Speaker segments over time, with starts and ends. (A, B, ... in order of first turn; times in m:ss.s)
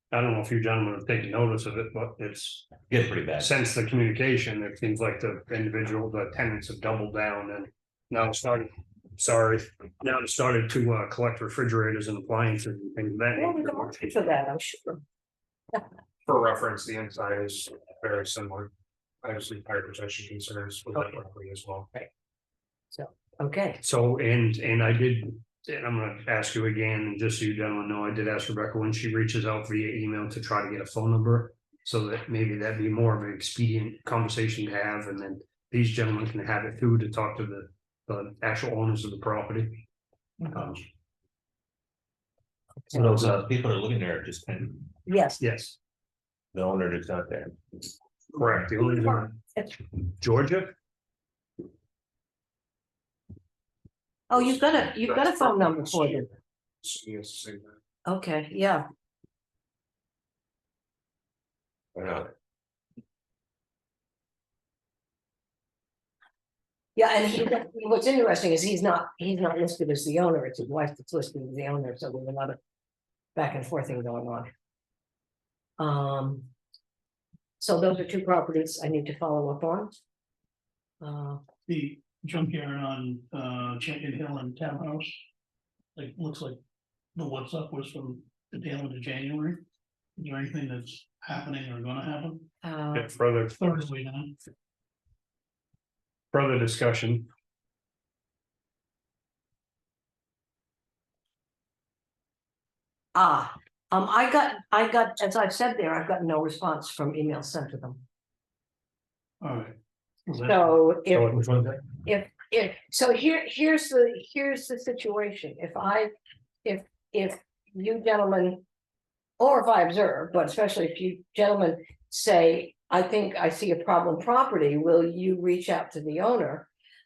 0:00.1-0:02.7 A
0:02.9-0:03.5 B
0:03.4-0:14.1 A
0:13.4-0:15.0 C
0:16.2-0:18.7 A
0:19.2-0:21.9 A
0:22.9-0:23.8 C
0:23.8-0:39.8 A
0:40.4-0:40.9 A
0:42.9-0:44.9 B
0:43.0-0:43.4 A
0:45.1-0:45.4 C
0:45.4-0:45.8 A
0:46.5-0:47.5 B
0:48.3-0:49.4 A
0:48.8-0:49.7 C
0:50.2-0:50.7 A
0:54.3-0:56.3 C
0:56.8-0:57.7 A
0:58.0-0:58.8 C
1:01.9-1:02.3 B
1:07.0-1:12.6 C
1:13.3-1:14.5 C
1:15.8-1:16.5 C
1:17.6-1:19.9 C
1:21.0-1:21.4 C
1:21.7-1:25.2 D
1:25.9-1:26.6 D
1:27.1-1:29.6 D
1:30.2-1:32.4 D
1:32.6-1:33.1 C
1:32.9-1:33.6 A
1:33.6-1:34.4 D
1:36.3-1:37.3 A
1:43.1-1:48.0 C
1:49.4-1:49.8 D
1:50.3-1:51.4 C
1:51.1-1:51.8 A
1:52.0-1:56.1 C
1:56.6-1:58.6 C
1:59.4-2:06.7 C